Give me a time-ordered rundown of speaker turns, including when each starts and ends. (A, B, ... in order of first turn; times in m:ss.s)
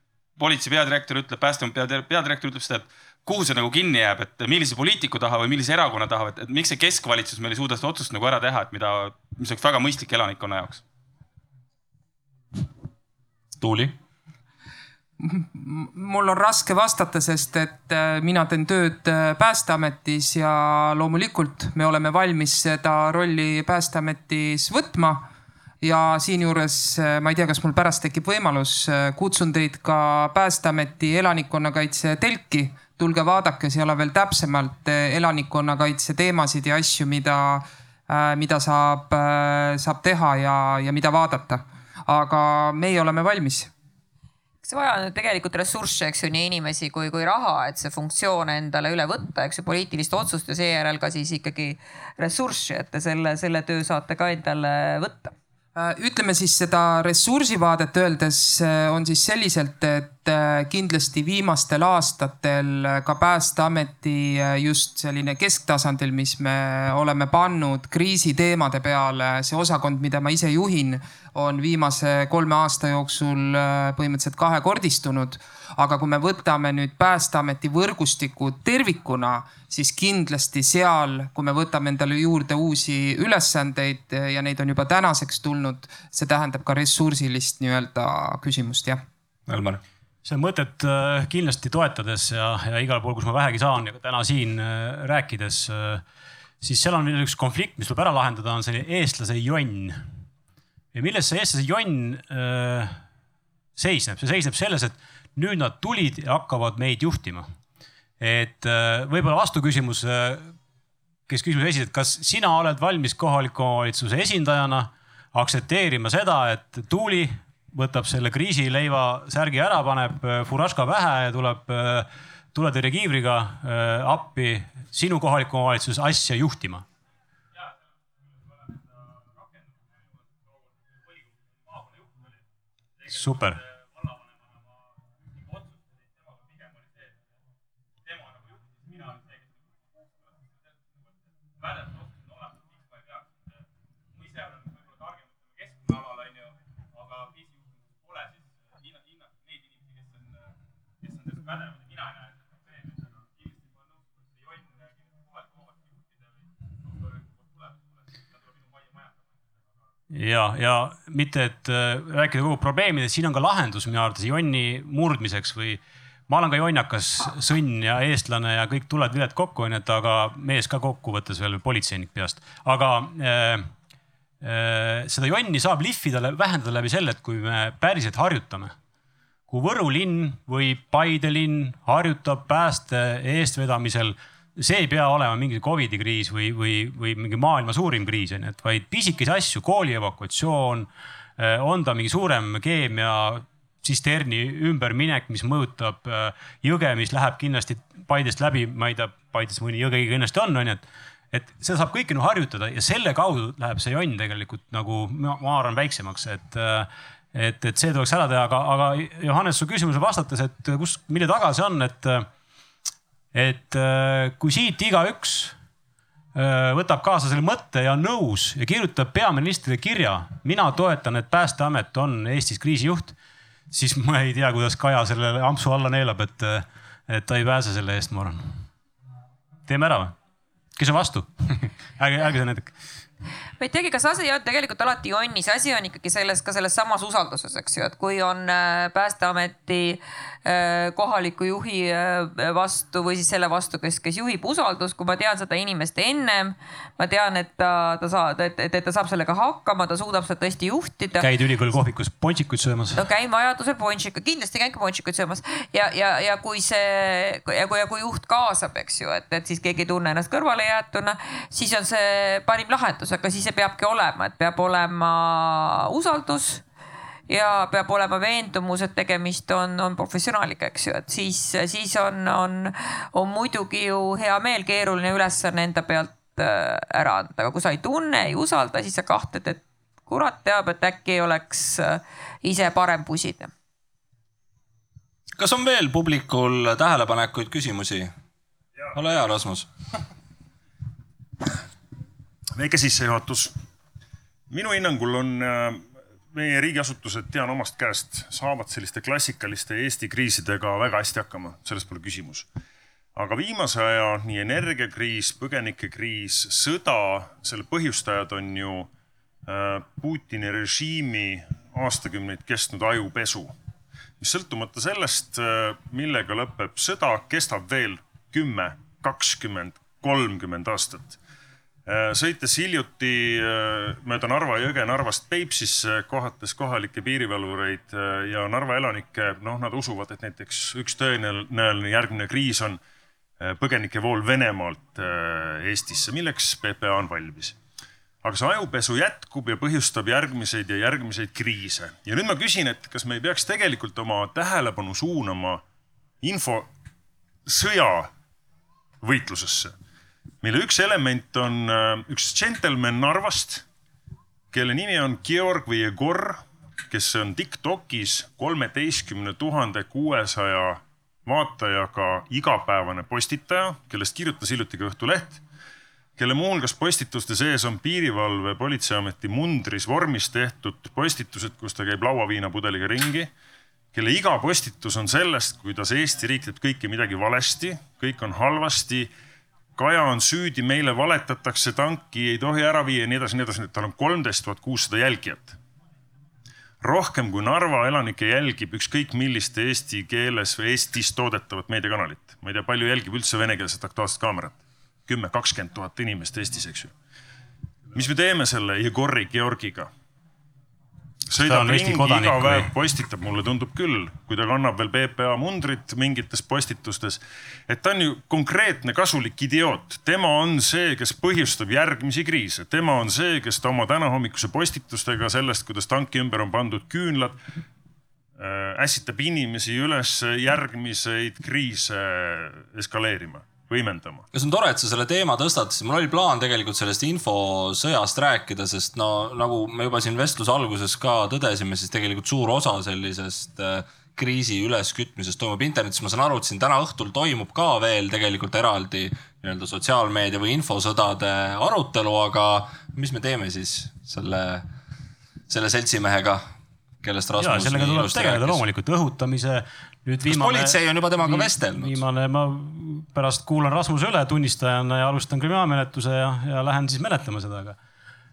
0:00.4-0:10.8 A
0:13.6-0:14.0 B
0:15.2-0:25.3 C
0:25.8-0:43.7 C
0:44.6-0:55.3 D
0:55.8-1:29.0 C
1:29.5-1:29.8 B
1:30.2-1:36.0 E
1:36.6-1:40.0 E
1:40.9-1:43.0 E
1:43.8-1:47.5 E
1:48.2-1:50.5 E
1:51.3-2:06.8 E
2:13.1-2:13.6 E
2:40.1-2:53.7 E
2:54.4-2:58.7 E
2:59.5-3:32.3 E
3:33.3-3:35.5 E
3:36.3-3:43.1 E
3:43.7-3:48.4 E
3:49.7-3:50.2 E
3:50.8-3:52.7 E
3:53.6-4:11.3 D
4:11.2-4:13.0 E
4:12.9-4:26.6 D
4:27.3-4:43.5 D
4:45.4-4:48.1 B
4:48.9-4:49.7 B
4:52.6-4:53.6 F
4:54.5-5:02.5 F
5:03.2-5:08.9 F
5:09.5-5:13.5 F
5:14.2-5:21.2 F
5:21.9-5:32.8 F
5:33.4-5:37.6 F
5:38.2-5:45.6 F
5:46.2-5:46.7 F
5:47.4-5:48.1 F
5:49.0-5:49.7 F
5:50.4-5:53.6 F
5:54.5-6:05.4 F
6:06.2-6:13.3 F
6:13.9-6:19.1 F
6:19.8-6:25.6 F
6:26.8-6:36.9 F
6:37.9-6:39.9 F
6:41.3-6:57.4 F
6:41.4-6:42.7 E
6:58.4-7:04.2 F
7:04.3-7:24.7 B
7:25.5-7:26.5 B
7:27.0-7:28.6 B
7:27.4-7:37.8 E
7:30.2-7:32.0 B